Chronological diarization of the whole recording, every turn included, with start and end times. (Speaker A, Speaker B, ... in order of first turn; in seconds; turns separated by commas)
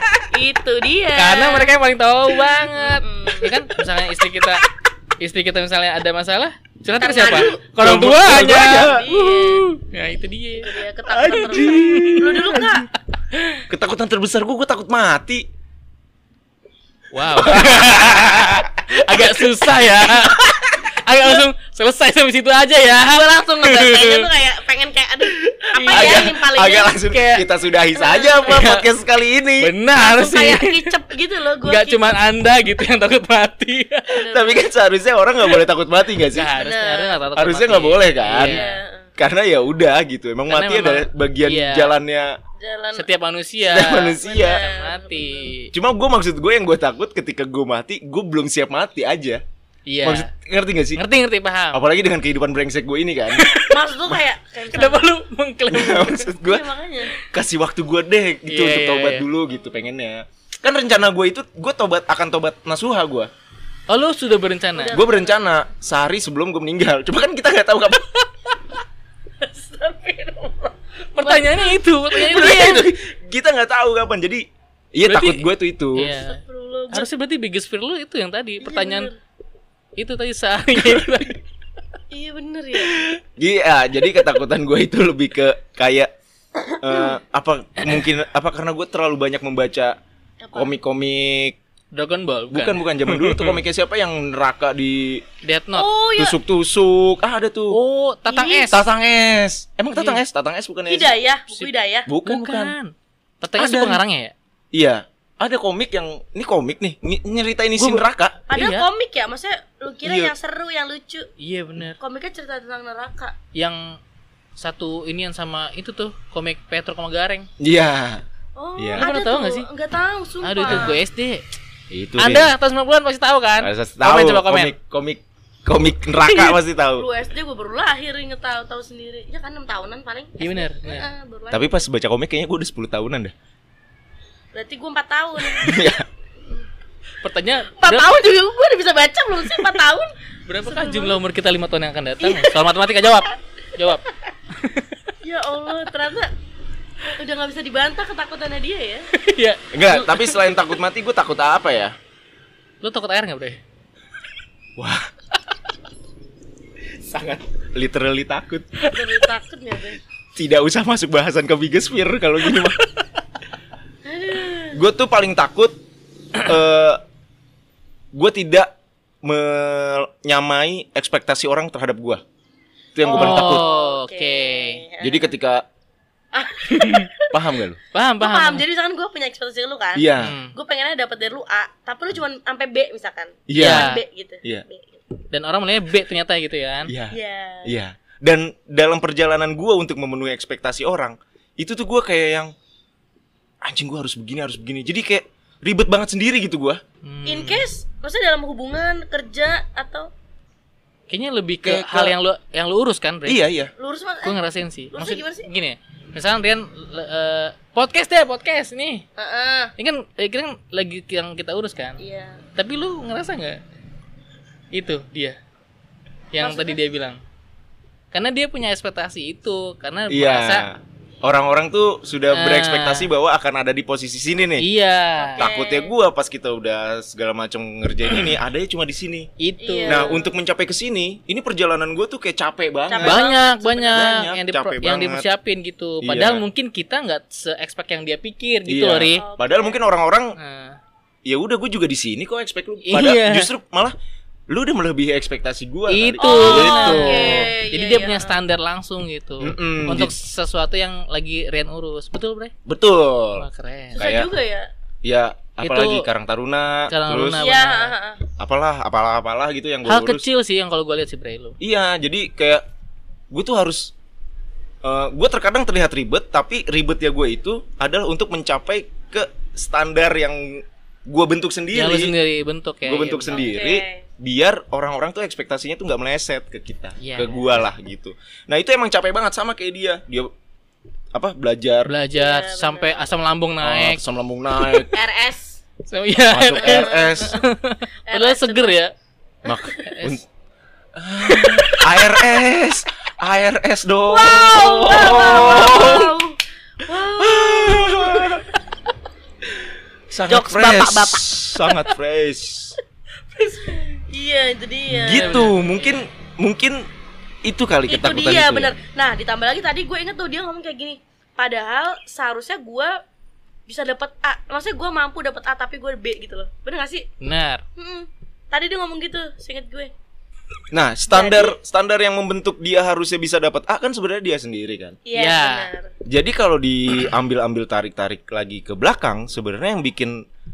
Speaker A: 0.3-1.7, Speaker B: 1.2-4.6, Speaker A: 2.7-3.5, Speaker B: 5.2-9.0, Speaker A: 7.0-7.6, Speaker C: 7.8-9.6, Speaker A: 8.2-9.6, Speaker B: 9.5-10.7, Speaker A: 10.6-12.9, Speaker C: 11.1-12.8, Speaker B: 11.2-12.6, Speaker B: 13.3-13.6, Speaker C: 13.7-15.5, Speaker B: 17.1-24.3, Speaker C: 17.3-19.6, Speaker A: 23.0-26.9, Speaker C: 25.4-29.7, Speaker B: 25.7-26.3, Speaker B: 27.1-27.4, Speaker A: 27.9-28.6, Speaker B: 28.4-28.8, Speaker B: 29.6-30.9, Speaker A: 29.9-32.0, Speaker B: 31.6-34.2, Speaker A: 34.2-34.7, Speaker C: 34.2-36.5, Speaker B: 36.3-38.8, Speaker A: 36.6-37.2, Speaker C: 37.4-38.6, Speaker A: 38.4-39.1, Speaker C: 39.2-42.4, Speaker B: 40.5-41.9, Speaker A: 42.6-43.1, Speaker B: 42.9-45.7, Speaker C: 43.6-44.6, Speaker A: 43.9-45.5, Speaker C: 45.7-49.4, Speaker B: 49.9-50.3, Speaker C: 50.0-51.0, Speaker B: 50.9-51.8, Speaker C: 51.7-53.4, Speaker B: 53.3-53.8, Speaker A: 53.7-55.1, Speaker B: 54.7-56.3, Speaker C: 55.7-56.7, Speaker A: 56.3-57.1, Speaker C: 57.3-63.3, Speaker B: 58.5-59.2, Speaker B: 63.9-65.0, Speaker A: 64.7-65.4, Speaker C: 64.9-68.3, Speaker A: 69.4-72.8, Speaker B: 71.1-72.9, Speaker C: 72.2-76.1, Speaker B: 75.0-76.4, Speaker A: 76.0-77.1, Speaker B: 76.9-79.1, Speaker A: 78.6-79.2, Speaker B: 80.0-81.4, Speaker A: 82.1-83.0, Speaker C: 82.8-86.1, Speaker A: 86.7-87.1, Speaker C: 86.8-90.0, Speaker A: 90.4-90.7, Speaker C: 90.5-91.6, Speaker B: 91.9-93.6, Speaker C: 92.5-95.2, Speaker B: 95.4-95.9, Speaker A: 95.7-96.4, Speaker C: 96.2-97.8, Speaker B: 97.7-98.8, Speaker A: 98.3-98.8, Speaker C: 98.7-101.1, Speaker B: 99.9-100.2, Speaker A: 100.9-102.1, Speaker C: 102.1-102.7, Speaker B: 102.2-104.3, Speaker C: 103.6-104.0, Speaker C: 104.7-108.4, Speaker A: 108.5-111.3, Speaker B: 108.5-108.8, Speaker C: 110.0-110.3, Speaker B: 111.4-112.0, Speaker A: 112.0-113.3, Speaker B: 113.5-114.0, Speaker B: 114.6-117.5, Speaker C: 117.6-118.2, Speaker A: 118.5-121.0, Speaker C: 118.8-119.0, Speaker B: 119.0-119.7, Speaker B: 120.4-121.4, Speaker C: 120.7-120.9, Speaker C: 121.9-122.5, Speaker B: 122.2-124.7, Speaker C: 123.6-127.1, Speaker A: 126.3-131.8, Speaker B: 130.4-131.1, Speaker C: 131.5-133.3, Speaker A: 134.5-135.8, Speaker C: 135.5-136.1, Speaker B: 137.2-138.1, Speaker A: 137.8-140.1, Speaker B: 139.5-139.8, Speaker B: 140.5-144.0, Speaker A: 140.6-141.2, Speaker A: 142.2-142.6, Speaker B: 144.5-145.0, Speaker A: 145.2-146.3, Speaker A: 147.1-149.1, Speaker B: 149.1-150.4, Speaker C: 149.7-151.9, Speaker B: 152.8-153.6, Speaker C: 154.8-155.1, Speaker C: 157.0-158.7, Speaker A: 158.9-160.0, Speaker C: 160.3-162.8, Speaker A: 164.0-164.8, Speaker C: 164.7-165.8, Speaker C: 166.4-167.0, Speaker C: 168.1-168.7, Speaker C: 169.2-172.2, Speaker C: 172.9-173.6, Speaker A: 173.0-175.3, Speaker B: 173.1-174.8, Speaker C: 175.0-175.7, Speaker A: 176.3-177.4, Speaker B: 176.7-177.1, Speaker C: 177.3-177.8, Speaker B: 177.9-178.6, Speaker A: 178.2-185.0, Speaker C: 179.9-180.3, Speaker B: 180.2-180.5, Speaker C: 183.5-183.9, Speaker B: 183.6-184.0, Speaker B: 185.3-186.9, Speaker C: 186.9-192.5, Speaker A: 187.1-187.7, Speaker C: 193.6-196.8, Speaker B: 197.0-197.6, Speaker A: 197.2-200.1, Speaker B: 201.1-203.4, Speaker C: 201.6-202.2, Speaker C: 203.2-203.7, Speaker A: 203.8-204.4, Speaker B: 204.2-209.0, Speaker A: 204.9-205.5, Speaker A: 209.2-209.7, Speaker B: 209.8-212.0, Speaker A: 212.0-212.4, Speaker B: 212.6-213.6, Speaker B: 214.7-215.4, Speaker B: 216.3-217.2, Speaker A: 216.4-216.8, Speaker B: 218.1-220.6, Speaker C: 220.1-224.7, Speaker B: 222.3-223.1, Speaker B: 224.6-225.4, Speaker A: 225.2-225.9, Speaker C: 225.4-229.3, Speaker B: 229.4-230.1, Speaker A: 229.6-230.2, Speaker C: 229.8-233.3, Speaker A: 232.9-234.2, Speaker B: 233.0-239.2, Speaker C: 233.9-235.3, Speaker C: 236.0-236.4, Speaker C: 238.7-240.3, Speaker A: 239.2-239.8, Speaker B: 240.4-240.8, Speaker C: 241.2-243.9, Speaker B: 242.8-243.5, Speaker C: 244.5-247.5, Speaker B: 245.9-252.5, Speaker A: 246.2-248.3, Speaker C: 249.4-250.1, Speaker C: 252.7-253.4, Speaker B: 253.4-254.0, Speaker A: 253.9-254.7, Speaker C: 254.0-254.3, Speaker C: 255.0-257.4, Speaker B: 255.6-256.1, Speaker B: 256.9-257.9, Speaker A: 257.4-258.2, Speaker C: 258.4-260.2, Speaker B: 259.9-261.6, Speaker C: 261.6-262.6, Speaker C: 263.3-263.9, Speaker C: 264.8-272.1, Speaker B: 271.7-273.5, Speaker C: 272.8-280.3, Speaker A: 273.3-274.0, Speaker B: 277.0-277.6, Speaker C: 281.1-281.9, Speaker B: 281.9-284.0, Speaker A: 282.1-283.0, Speaker C: 283.6-284.9, Speaker A: 284.9-285.6, Speaker B: 285.9-288.9, Speaker C: 286.3-287.4, Speaker A: 286.6-287.4, Speaker A: 288.1-288.8, Speaker C: 289.4-290.2, Speaker A: 289.4-289.8, Speaker B: 289.8-290.2, Speaker C: 290.9-296.2, Speaker B: 291.3-291.8, Speaker A: 294.1-298.5, Speaker C: 297.1-298.5, Speaker C: 300.1-302.8, Speaker A: 300.3-301.9, Speaker A: 303.3-305.5, Speaker C: 304.9-306.9, Speaker B: 305.0-306.0, Speaker C: 307.4-308.7, Speaker A: 307.9-313.0, Speaker A: 313.7-317.1, Speaker B: 317.2-317.6, Speaker A: 317.8-319.9, Speaker C: 320.7-325.0, Speaker A: 321.1-321.6, Speaker A: 325.1-325.9, Speaker B: 325.1-325.7, Speaker C: 326.1-330.2